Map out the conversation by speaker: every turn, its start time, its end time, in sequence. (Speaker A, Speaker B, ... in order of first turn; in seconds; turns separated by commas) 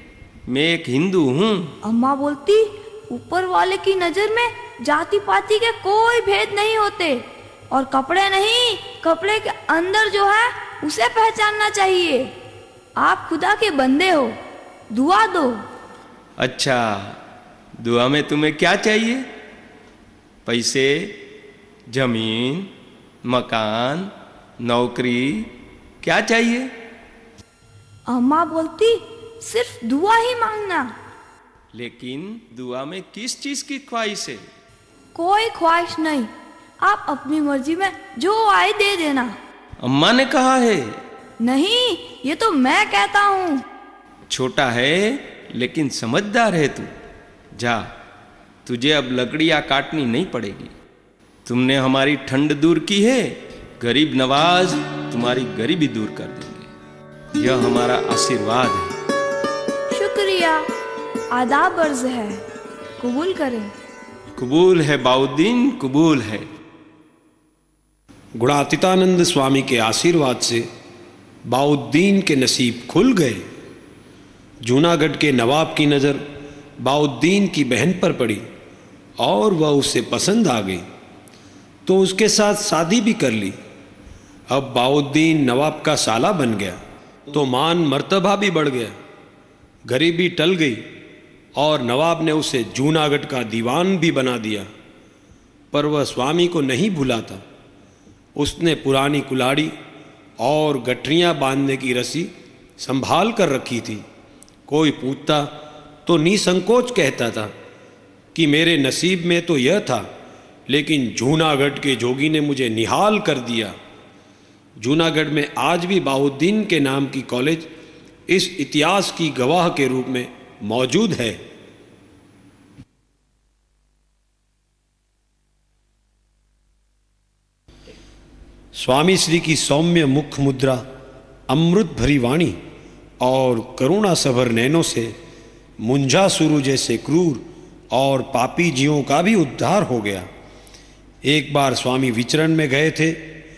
Speaker A: 0.5-1.7, Speaker B: 1.8-12.3, Speaker B: 13.0-14.4, Speaker B: 14.9-15.6, Speaker A: 16.4-17.2, Speaker A: 17.8-19.3, Speaker A: 20.5-21.1, Speaker A: 21.9-22.7, Speaker A: 23.3-25.5, Speaker A: 26.0-26.7, Speaker B: 28.1-30.9, Speaker A: 31.7-34.5, Speaker B: 35.1-36.3, Speaker B: 36.8-39.4, Speaker A: 39.8-41.0, Speaker B: 41.4-43.6, Speaker A: 44.3-46.9, Speaker A: 47.6-47.9, Speaker A: 48.7-50.7, Speaker A: 51.5-56.7, Speaker A: 57.4-58.9, Speaker B: 59.9-60.7, Speaker B: 61.3-62.4, Speaker B: 63.0-63.7, Speaker A: 64.3-66.5, Speaker C: 68.4-70.7, Speaker C: 71.5-73.4, Speaker C: 74.6-76.2, Speaker C: 76.8-78.5, Speaker C: 79.2-80.9, Speaker C: 81.9-83.6, Speaker C: 84.5-86.8, Speaker C: 87.3-89.0, Speaker C: 89.9-90.9, Speaker C: 91.6-94.7, Speaker C: 95.7-97.4, Speaker C: 98.4-99.8, Speaker C: 100.4-104.0, Speaker C: 104.7-105.5, Speaker C: 106.0-107.5, Speaker C: 108.3-110.1, Speaker C: 110.7-113.8, Speaker C: 114.8-117.7, Speaker C: 118.3-121.4, Speaker C: 128.8-130.8, Speaker C: 131.5-132.6, Speaker C: 133.2-135.2, Speaker C: 135.8-140.3, Speaker C: 141.2-143.3